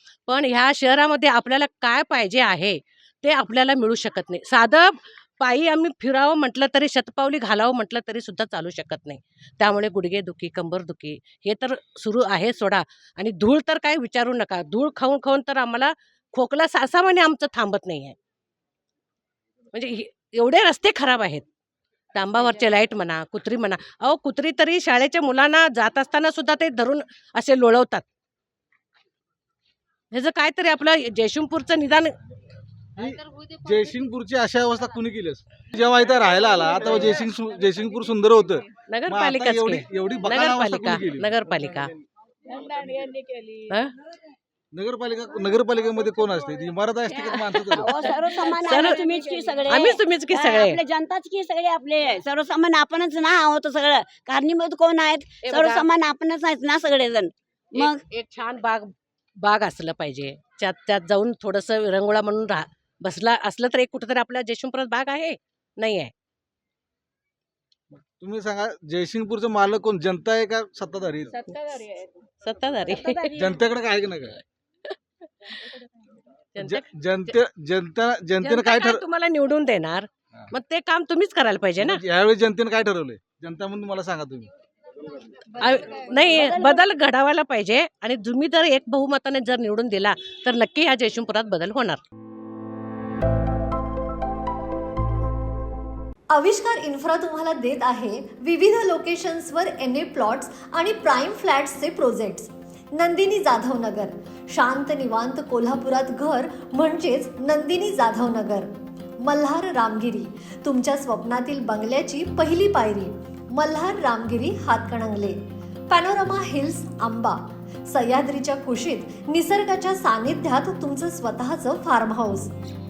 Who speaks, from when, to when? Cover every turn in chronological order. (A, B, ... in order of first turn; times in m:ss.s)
0:00.3-0:18.2 A
0:19.7-0:21.4 A
0:22.1-0:28.0 A
0:30.1-0:32.2 A
0:33.0-0:41.8 B
0:38.9-0:41.9 A
0:43.7-0:43.9 A
0:44.7-0:48.0 B
0:47.3-0:49.0 A
0:47.8-0:58.0 C
0:49.7-0:50.8 A
0:55.4-0:55.9 A
0:57.8-1:06.1 A
1:07.9-1:11.6 B
1:12.4-1:13.5 A
1:13.4-1:14.4 B
1:16.6-1:17.3 A
1:16.6-1:19.0 B
1:18.4-1:22.0 A
1:21.8-1:24.5 B
1:25.6-1:32.0 A
1:26.4-1:26.6 C
1:36.3-2:02.5 D